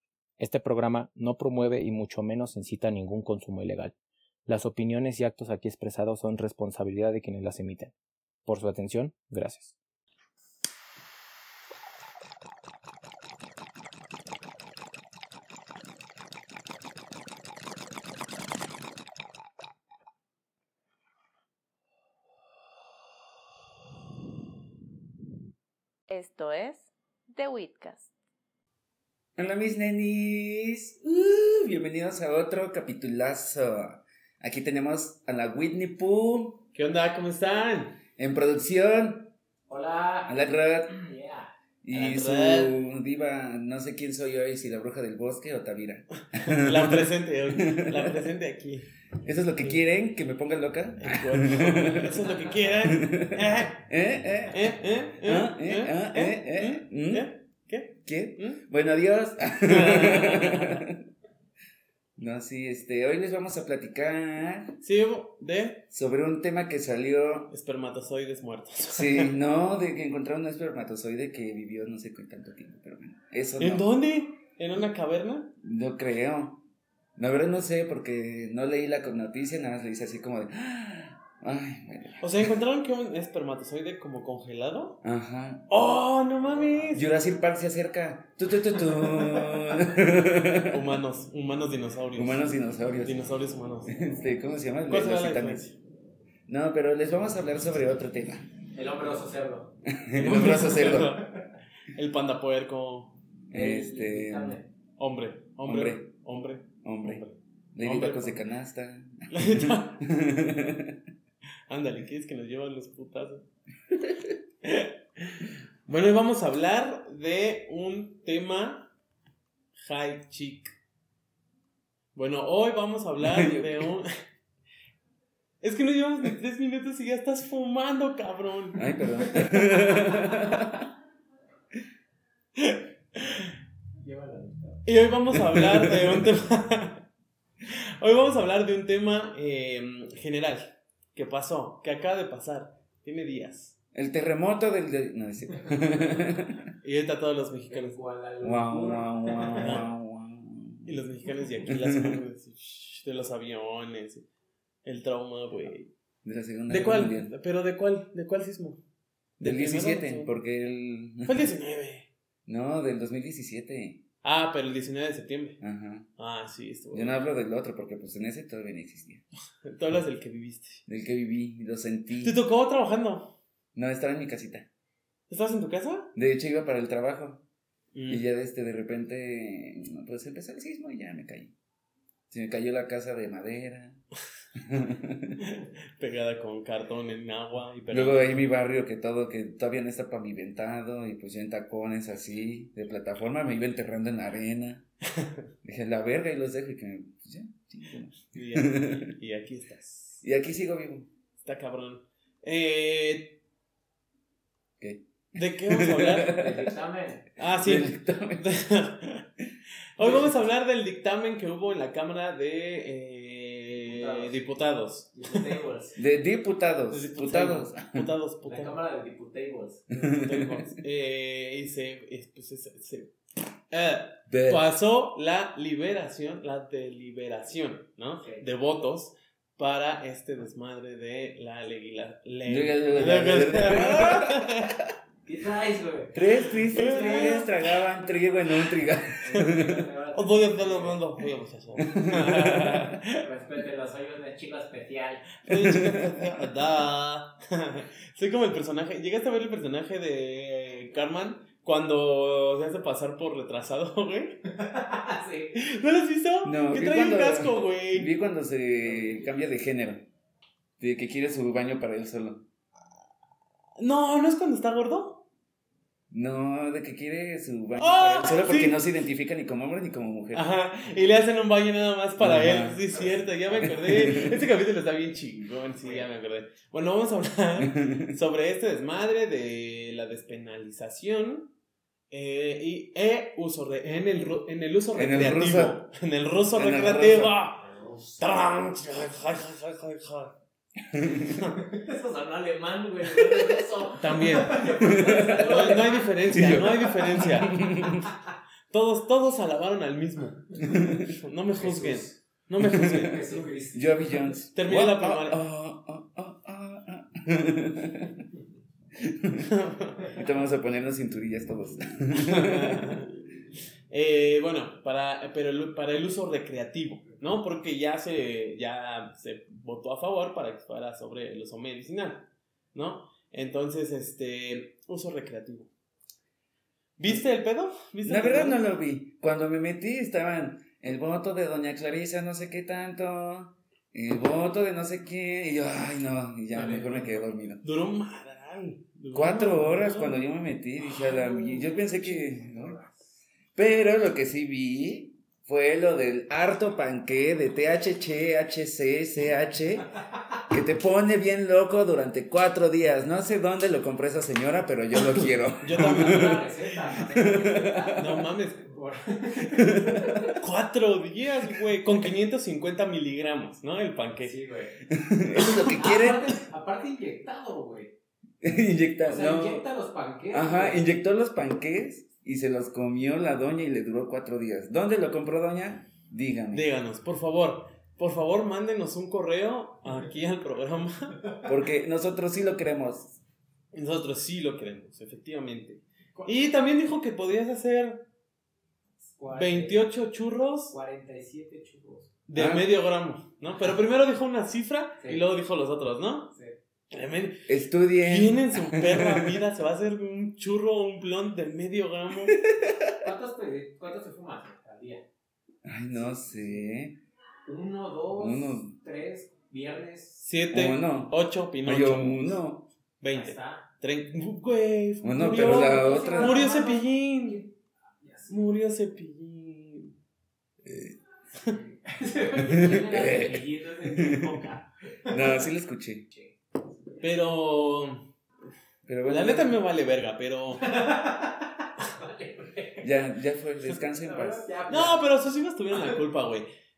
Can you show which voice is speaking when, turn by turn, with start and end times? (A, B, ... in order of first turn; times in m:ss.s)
0:00.4-0:04.0 A
0:04.5-0:07.9 A
0:08.4-0:09.7 A
0:26.1-0:28.1 B
0:29.4-0:36.6 C
0:36.7-0:38.0 D
0:38.2-0:39.3 C
0:39.7-0:41.5 E
0:40.3-0:40.9 C
0:41.8-0:48.2 C
0:41.9-0:42.8 D
0:46.2-0:48.9 D
0:49.2-0:52.2 C
0:49.6-0:49.8 D
0:51.0-0:53.9 D
0:52.8-0:57.3 C
0:54.5-0:58.6 D
0:58.0-1:01.0 C
0:59.6-1:00.9 D
1:02.2-1:04.8 C
1:04.8-1:05.8 D
1:05.9-1:07.5 C
1:07.5-1:09.3 D
1:08.9-1:13.9 C
1:13.6-1:15.5 D
1:15.6-1:16.6 C
1:17.2-1:22.2 C
1:22.2-1:25.0 D
1:25.0-1:25.7 C
1:25.7-1:27.1 D
1:26.9-1:31.0 C
1:28.8-1:29.6 D
1:30.6-1:34.1 D
1:32.1-1:33.2 C
1:33.9-1:35.6 C
1:34.9-1:35.8 D
1:36.5-1:38.5 C
1:38.8-1:39.7 E
1:39.9-1:41.2 C
1:40.2-1:41.3 D
1:40.9-1:41.2 E
1:41.9-1:43.2 D
1:43.5-1:44.6 C
1:43.5-1:44.7 E
1:45.0-1:48.4 D
1:45.6-1:46.1 C
1:46.8-1:51.0 C
1:49.3-1:50.0 D
1:51.7-1:53.4 D
1:54.6-1:58.9 D
1:59.8-2:00.7 D
2:02.2-2:04.1 D
2:03.2-2:03.9 C
2:05.6-2:09.3 D
2:08.7-2:10.9 C
2:12.6-2:13.5 D
2:14.0-2:14.9 E
2:14.8-2:17.0 D
2:15.4-2:16.2 C
2:17.6-2:23.8 D
2:23.9-2:26.6 C
2:25.7-2:26.2 E
2:26.8-2:28.0 D
2:27.7-2:29.8 E
2:28.4-2:31.1 C
2:29.6-2:29.9 D
2:30.8-2:34.2 D
2:31.7-2:32.2 C
2:34.8-2:35.9 D
2:36.2-2:37.3 C
2:36.7-2:38.8 D
2:39.4-2:40.3 D
2:39.4-2:41.5 C
2:41.2-2:42.1 D
2:42.5-2:44.0 C
2:44.2-2:45.6 D
2:45.6-2:46.1 C
2:46.2-2:47.3 D
2:46.9-2:49.2 C
2:49.6-2:50.8 D
2:50.9-2:52.4 C
2:52.2-2:53.4 D
2:53.8-2:54.7 C
2:55.3-2:56.1 D
2:56.2-2:57.4 C
2:57.9-2:58.2 D
2:58.1-3:01.5 C
3:02.3-3:04.0 C
3:04.6-3:05.4 C
3:05.4-3:08.4 D
3:07.9-3:14.8 C
3:15.6-3:19.0 C
3:18.3-3:20.2 D
3:20.2-3:21.1 C
3:21.4-3:23.4 D
3:24.8-3:26.7 C
3:25.4-3:26.4 D
3:26.2-3:27.3 E
3:27.4-3:29.3 D
3:27.6-3:28.5 C
3:30.0-3:35.4 D
3:30.0-3:30.3 C
3:33.9-3:34.4 E
3:35.1-3:36.0 E
3:36.0-3:38.1 C
3:36.9-3:38.8 D
3:38.4-3:39.9 E
3:39.9-3:40.7 C
3:40.0-3:43.1 D
3:43.7-3:54.7 D
3:44.3-3:44.7 C
3:48.2-3:48.4 E
3:52.5-3:54.5 C
3:55.2-3:57.4 E
3:56.1-3:59.9 C
3:56.7-3:57.6 D
3:59.2-4:01.1 E
4:00.1-4:03.3 D
4:01.8-4:02.9 C
4:03.2-4:05.2 E
4:05.4-4:14.4 D
4:05.5-4:06.5 C
4:14.5-4:15.6 E
4:15.5-4:18.1 D
4:16.4-4:20.1 C
4:18.9-4:19.3 E
4:20.8-4:22.4 C
4:23.8-4:25.2 D
4:26.1-4:30.4 C
4:27.8-4:28.8 D
4:30.3-4:41.5 D
4:32.2-4:32.9 C
4:33.5-4:34.5 C
4:35.8-4:36.1 E
4:37.6-4:38.2 C
4:42.1-4:47.7 D
4:44.9-4:45.8 C
4:46.5-4:47.4 C
4:47.6-4:48.2 E
4:48.2-4:50.3 D
4:50.9-4:51.3 C
4:51.2-4:51.6 D
4:51.5-4:57.6 E
4:54.0-4:57.6 D
4:54.7-4:55.7 C
4:56.3-4:58.1 C
4:58.7-5:03.6 D
5:00.6-5:01.1 C
5:01.6-5:02.2 E
5:02.6-5:03.1 C
5:03.0-5:04.4 E
5:03.7-5:08.2 C
5:04.5-5:05.4 D
5:09.0-5:09.5 C
5:09.4-5:10.2 D
5:10.1-5:13.0 C
5:12.1-5:13.2 D
5:13.9-5:25.7 D
5:27.0-5:28.6 D
5:28.0-5:37.6 C
5:36.5-5:37.2 E
5:37.6-5:40.2 D
5:39.1-5:42.8 C
5:40.9-5:41.4 D
5:41.2-5:43.2 E
5:43.6-5:49.9 C
5:50.5-5:58.2 C
5:55.1-5:56.5 D
5:55.7-5:58.1 E
5:58.0-5:58.7 D
5:58.6-6:00.4 E
5:59.6-6:00.0 C
6:00.3-6:04.4 D
6:04.2-6:04.8 E
6:04.9-6:06.4 C
6:05.8-6:07.9 E
6:08.4-6:09.7 C
6:09.0-6:11.0 E
6:10.3-6:16.7 C
6:16.5-6:21.2 D
6:21.4-6:23.2 C
6:23.7-6:28.1 D
6:26.2-6:26.5 E
6:29.1-6:29.9 E
6:29.3-6:30.8 D
6:30.7-6:32.1 E
6:32.3-6:36.3 D
6:32.4-6:32.7 C
6:35.0-6:35.3 E
6:36.9-6:37.5 D
6:37.5-6:39.4 C
6:38.0-6:42.4 D
6:42.3-6:42.9 C
6:43.0-6:45.0 E
6:45.6-6:47.0 C
6:45.9-6:46.5 E
6:47.4-6:50.3 E
6:48.2-6:48.7 C
6:50.2-6:52.4 D
6:50.5-6:52.7 C
6:53.0-6:57.5 D
6:53.1-6:53.7 E
6:55.0-6:56.4 C
6:55.1-6:58.4 E
6:58.3-6:59.9 D
7:00.6-7:01.0 C
7:01.4-7:05.4 E
7:02.4-7:04.4 C
7:05.1-7:06.1 C
7:06.1-7:07.0 E
7:07.0-7:08.1 D
7:08.9-7:09.6 C
7:09.1-7:10.8 D
7:10.6-7:12.9 E
7:12.8-7:14.5 C
7:13.7-7:15.1 E
7:14.7-7:16.5 D